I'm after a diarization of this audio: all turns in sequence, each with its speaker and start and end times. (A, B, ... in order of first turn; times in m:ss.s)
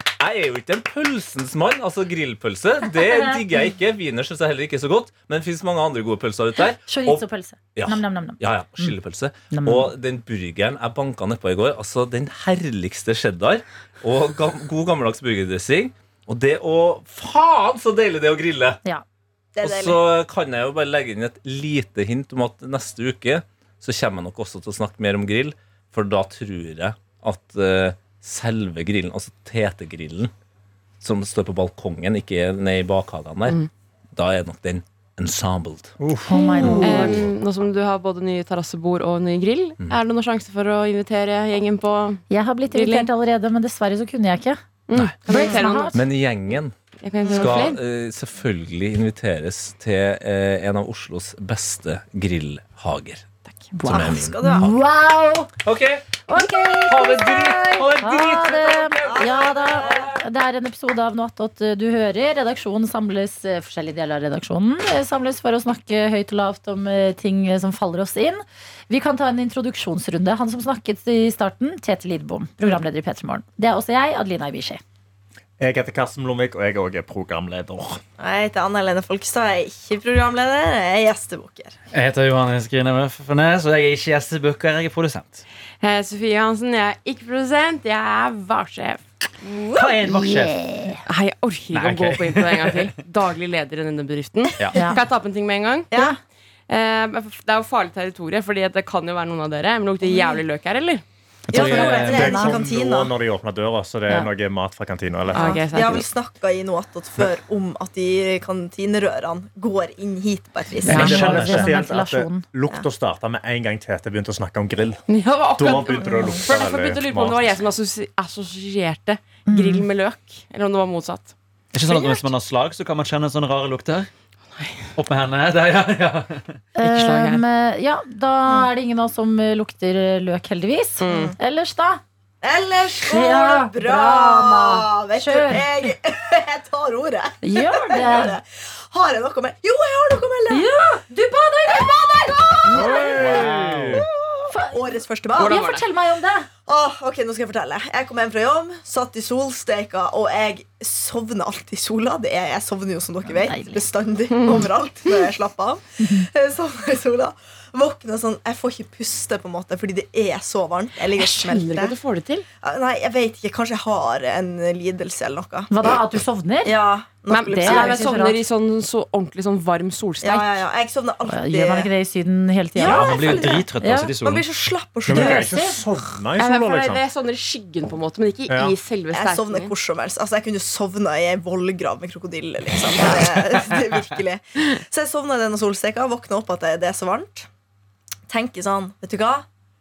0:00.2-0:18.8 A
0:02.9-0:03.4 B
0:06.8-0:08.4 B
0:09.5-0:09.9 B
0:19.6-0:20.0 C
0:19.6-0:30.3 A
0:31.0-0:33.6 A
0:34.2-0:36.0 A
0:36.0-0:37.2 D
0:36.3-0:37.2 B
0:36.8-0:43.1 E
0:42.3-0:44.6 B
0:44.9-0:46.0 E
0:45.3-0:46.0 B
0:45.3-0:45.6 C
0:45.9-0:46.7 A
0:47.0-0:47.8 E
0:47.2-0:47.7 C
0:47.4-0:53.3 A
0:53.7-0:55.5 B
0:53.8-0:54.8 A
0:53.9-0:54.7 C
0:55.6-0:59.2 A
0:56.3-1:14.8 B
0:59.0-1:00.1 C
1:15.6-1:18.0 D
1:18.2-1:21.8 C
1:21.9-1:25.4 F
1:25.8-1:29.0 E
1:29.4-1:30.0 C
1:29.7-1:30.6 F
1:30.0-1:31.0 B
1:31.1-1:35.9 E
1:31.7-1:32.8 F
1:34.6-1:34.9 F
1:34.7-1:35.0 B
1:36.7-1:41.0 E
1:40.0-1:40.4 C
1:41.5-1:42.4 F
1:41.5-1:43.1 C
1:41.5-1:42.6 B
1:42.0-1:45.8 D
1:45.3-1:46.0 E
1:45.4-1:46.0 B
1:45.7-1:51.2 C
1:50.8-1:52.4 B
1:50.9-1:55.0 D
1:50.9-1:51.6 F
1:55.1-2:01.3 E
1:55.6-1:57.6 D
1:59.5-1:59.9 B
2:01.7-2:04.1 F
2:01.9-2:02.2 E
2:05.0-2:06.6 F
2:06.8-2:12.0 B
2:06.8-2:07.4 E
2:11.0-2:11.3 E
2:11.1-2:11.4 C
2:12.4-2:20.7 C
2:13.0-2:15.7 B
2:17.4-2:18.4 B
2:20.5-2:21.9 B
2:21.7-2:25.6 C
2:22.7-2:23.5 B
2:22.8-2:24.0 D
2:23.0-2:23.9 A
2:24.5-2:26.5 B
2:25.4-2:25.8 E
2:26.7-2:42.0 C
2:33.3-2:33.8 B
2:34.3-2:35.2 E
2:36.0-2:36.3 B
2:41.1-2:42.4 E
2:42.6-2:45.9 C
2:45.7-2:46.8 B
2:46.6-2:48.0 C
2:47.3-2:50.6 E
2:47.5-2:48.4 B
2:50.2-2:51.9 C
2:51.3-2:54.1 B
2:52.8-2:53.7 C
2:52.8-2:54.5 F
2:54.2-2:55.6 C
2:55.1-2:57.0 D
2:55.1-2:55.8 B
2:56.4-2:59.7 E
2:58.5-2:58.8 D
2:59.1-3:07.5 C
3:08.3-3:09.4 C